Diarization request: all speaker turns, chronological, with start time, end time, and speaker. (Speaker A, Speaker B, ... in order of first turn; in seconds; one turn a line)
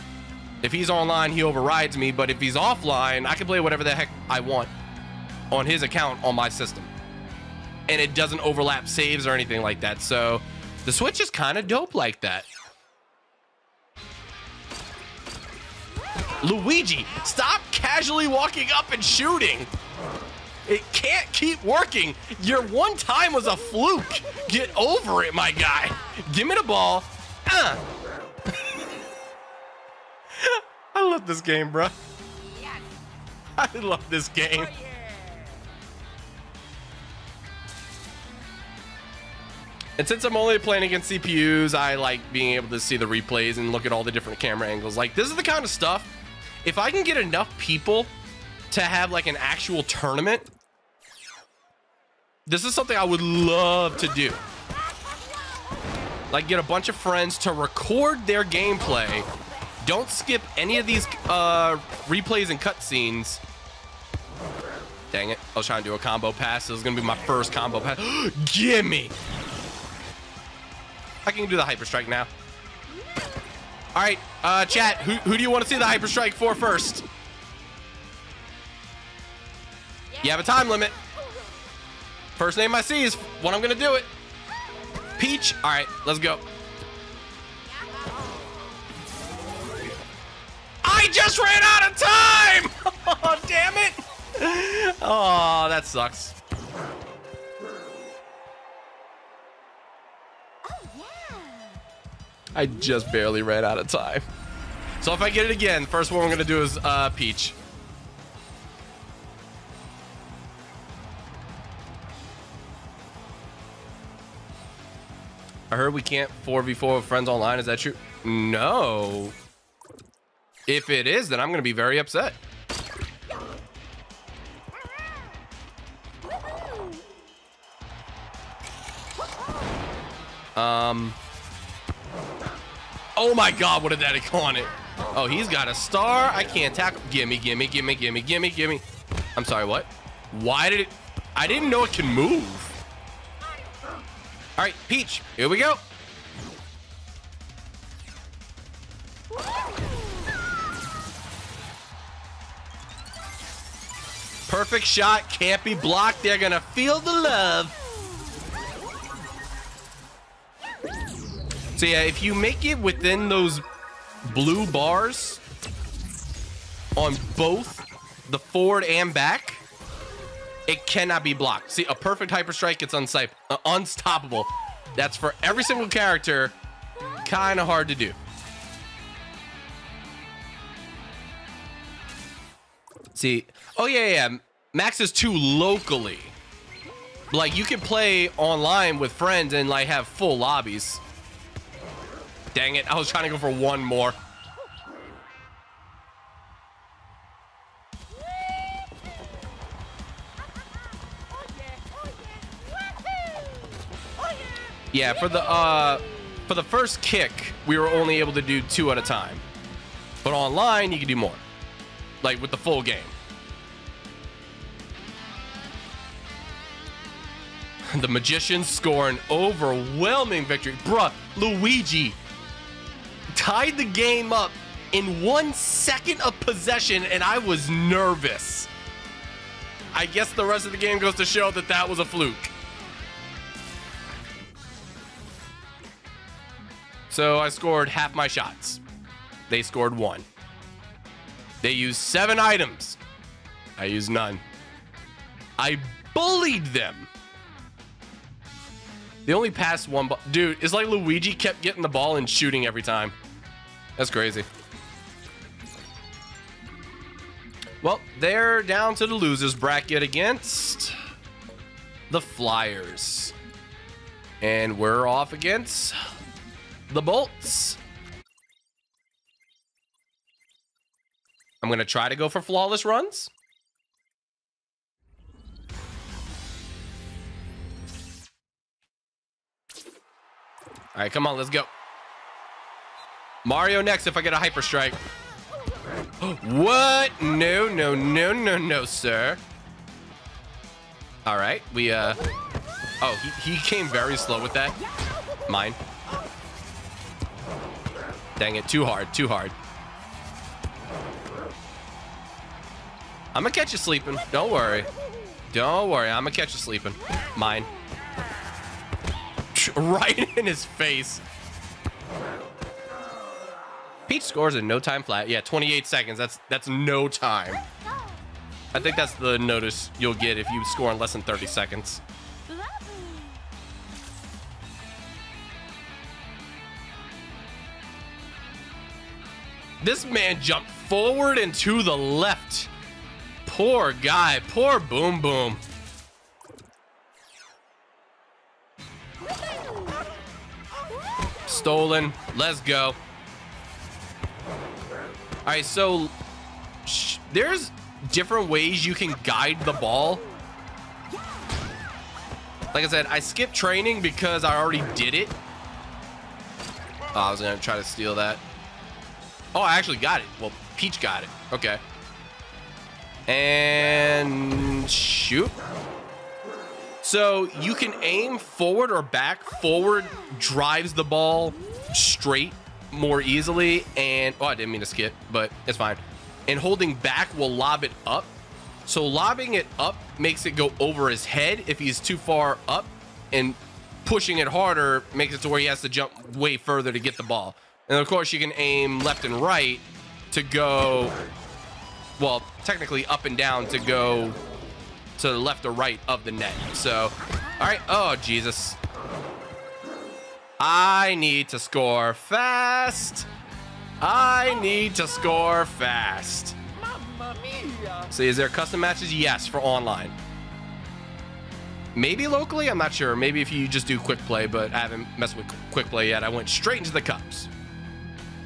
Speaker A: 0.6-4.7
Speaker A: 5.5-6.9
Speaker A: 7.9-12.5
Speaker A: 16.4-19.7
Speaker A: 20.7-27.8
Speaker A: 30.4-31.9
Speaker B: 32.4-33.0
Speaker A: 33.6-34.7
Speaker B: 34.5-35.7
Speaker A: 40.0-46.1
Speaker A: 46.6-48.1
Speaker A: 48.7-50.5
Speaker A: 52.5-54.4
Speaker A: 56.3-59.3
Speaker A: 59.8-63.4
Speaker A: 65.1-69.1
Speaker A: 71.2-72.3
Speaker A: 74.0-77.0
Speaker B: 80.1-81.1
Speaker A: 80.2-80.9
Speaker A: 82.4-84.1
Speaker A: 85.2-86.4
Speaker B: 87.7-88.7
Speaker A: 90.8-96.4
Speaker B: 100.7-101.8
Speaker A: 102.5-104.3
Speaker A: 105.0-107.6
Speaker A: 115.7-119.3
Speaker A: 120.7-122.4
Speaker A: 130.6-131.2
Speaker A: 133.2-138.8
Speaker A: 139.4-142.8
Speaker A: 144.6-145.8
Speaker A: 154.5-157.8
Speaker A: 161.8-163.6
Speaker A: 164.3-165.4
Speaker A: 167.0-169.6
Speaker A: 170.7-176.6
Speaker A: 177.2-178.2
Speaker A: 183.1-186.3
Speaker A: 187.3-191.0
Speaker A: 192.5-194.2
Speaker B: 201.2-203.6
Speaker A: 204.9-209.4
Speaker A: 210.2-211.4
Speaker A: 212.2-213.1
Speaker A: 217.9-222.2
Speaker A: 223.3-228.7
Speaker A: 229.9-232.5
Speaker A: 237.1-238.8
Speaker A: 239.5-240.3
Speaker A: 241.6-243.0
Speaker A: 243.8-244.4
Speaker A: 245.6-247.1
Speaker A: 249.3-253.2
Speaker A: 254.0-254.5
Speaker A: 257.8-261.0
Speaker A: 262.1-263.4
Speaker A: 264.4-266.0
Speaker A: 266.9-267.8
Speaker A: 271.6-273.3
Speaker A: 280.9-281.7
Speaker A: 283.4-285.0
Speaker A: 286.2-289.4
Speaker A: 291.3-292.2
Speaker A: 293.0-294.8
Speaker A: 295.5-295.8
Speaker A: 298.4-299.6
Speaker A: 303.3-304.9
Speaker A: 305.5-307.7
Speaker A: 309.5-311.2
Speaker A: 314.1-317.6
Speaker A: 318.7-322.0
Speaker B: 322.5-323.4
Speaker A: 329.8-332.7
Speaker A: 333.4-335.6
Speaker A: 341.5-343.0
Speaker A: 345.5-346.1
Speaker A: 346.9-350.2
Speaker A: 352.7-355.4
Speaker A: 357.1-358.4
Speaker A: 359.5-361.8
Speaker A: 363.3-365.6
Speaker A: 367.0-378.3
Speaker A: 378.9-391.2
Speaker A: 392.2-394.4
Speaker A: 395.2-398.8
Speaker A: 400.6-403.3
Speaker A: 404.0-406.6
Speaker B: 406.8-408.1
Speaker A: 408.1-410.1
Speaker A: 411.9-417.5